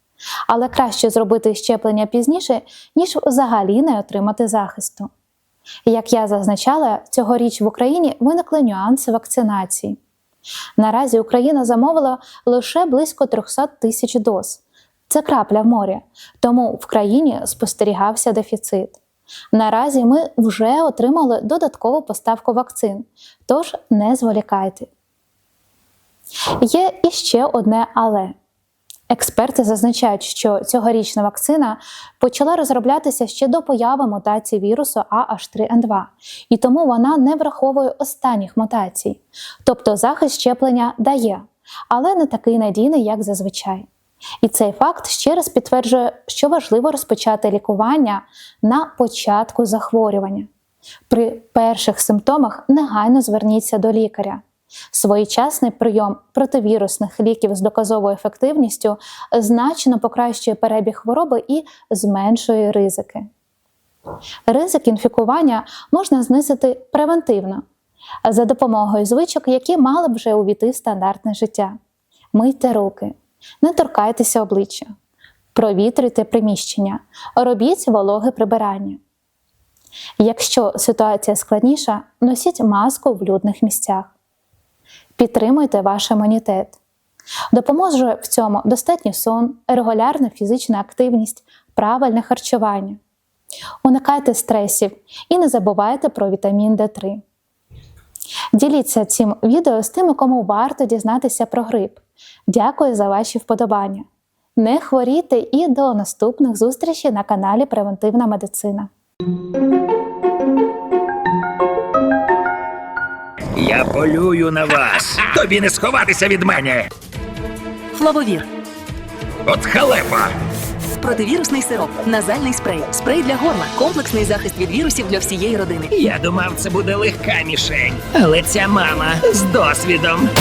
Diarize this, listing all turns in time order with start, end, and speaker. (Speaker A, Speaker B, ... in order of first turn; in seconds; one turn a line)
Speaker A: 0.5-5.1
Speaker A: 5.8-10.0
Speaker A: 10.8-19.0
Speaker A: 19.5-24.9
Speaker A: 26.6-28.4
Speaker A: 29.1-43.9
Speaker A: 44.4-50.5
Speaker A: 51.1-63.3
Speaker A: 64.5-67.6
Speaker A: 68.2-71.7
Speaker A: 72.3-74.9
Speaker A: 75.5-79.0
Speaker A: 80.2-84.1
Speaker A: 85.2-86.8
Speaker A: 87.5-93.0
Speaker A: 93.8-97.2
Speaker A: 98.5-108.9
Speaker B: 113.5-116.9
Speaker C: 117.9-118.5
Speaker B: 119.5-120.3
Speaker C: 121.0-125.9
Speaker B: 125.9-130.3